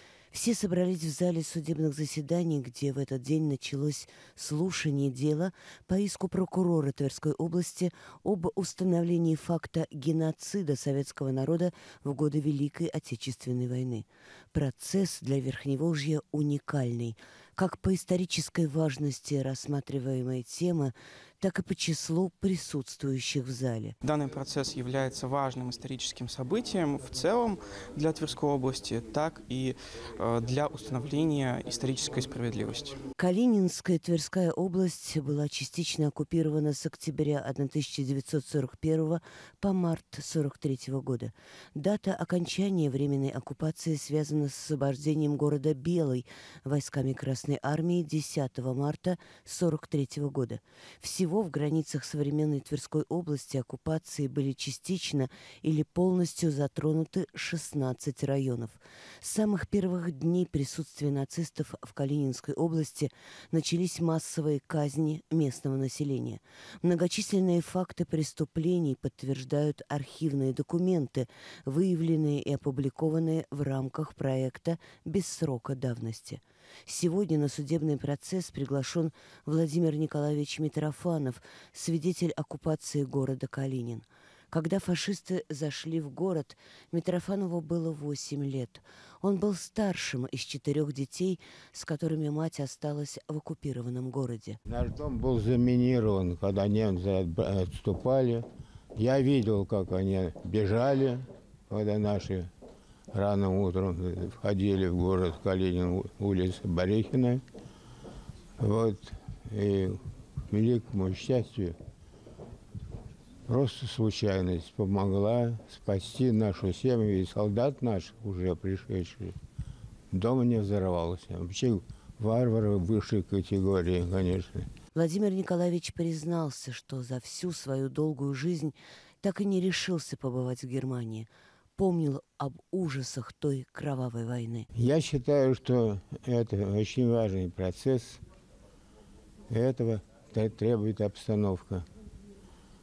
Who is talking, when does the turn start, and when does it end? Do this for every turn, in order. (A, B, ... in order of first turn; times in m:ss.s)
0:00.3-0:23.9 A
0:24.0-0:33.0 B
0:33.2-1:34.6 A
1:34.7-1:42.5 C
1:43.1-1:47.4 C
1:48.6-1:50.0 C
1:50.5-1:51.8 C
1:53.5-1:59.3 C
2:00.1-2:04.7 C
2:04.9-2:14.7 A
2:14.7-2:18.2 C
2:19.5-2:21.8 C